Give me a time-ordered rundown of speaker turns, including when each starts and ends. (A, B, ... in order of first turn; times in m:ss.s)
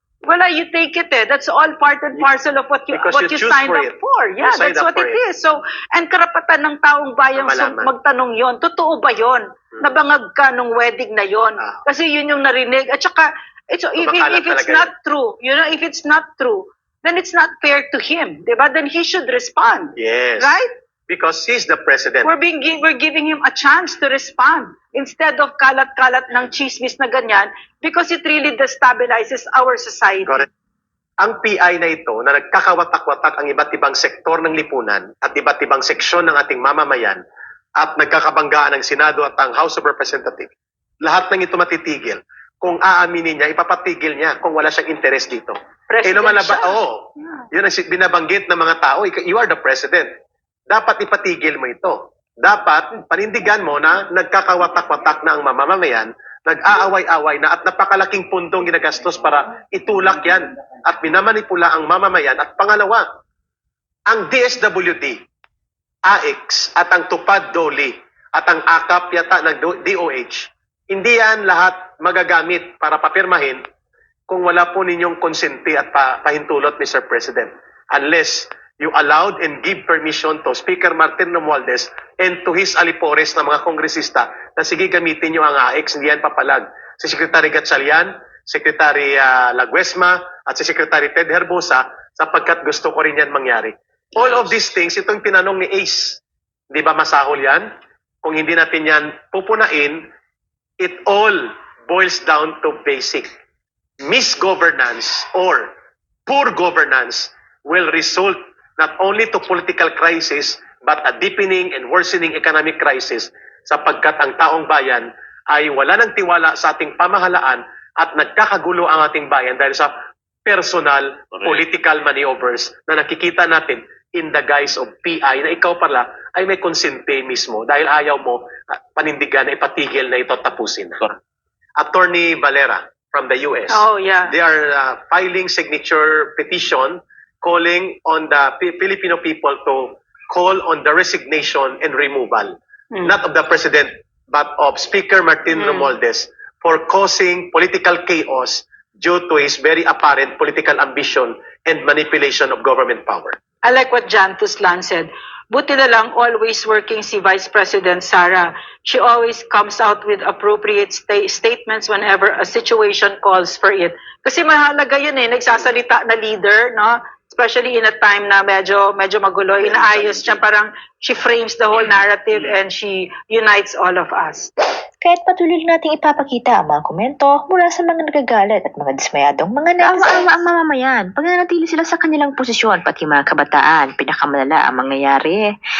0:00.2-0:20.7 A
0:02.9-0:05.2 B
0:07.3-0:07.9 B
0:14.0-0:14.9 B
0:20.0-0:22.3 B
0:22.2-0:30.4 A
0:31.2-0:37.2 B
0:37.8-0:50.1 B
0:45.9-0:47.4 A
0:50.7-1:03.0 B
1:04.1-1:05.2 B
1:06.1-1:13.6 B
1:14.3-1:36.2 B
1:36.7-1:37.7 B
1:38.2-1:40.1 B
1:40.8-1:43.3 B
1:44.0-1:45.7 B
1:46.3-1:59.9 B
2:00.4-2:08.4 B
2:09.0-2:11.0 B
2:11.8-2:33.4 B
2:13.7-2:14.3 A
2:25.5-2:25.9 A
2:33.6-2:54.5 A
2:49.6-2:50.4 B
2:55.0-3:05.5 C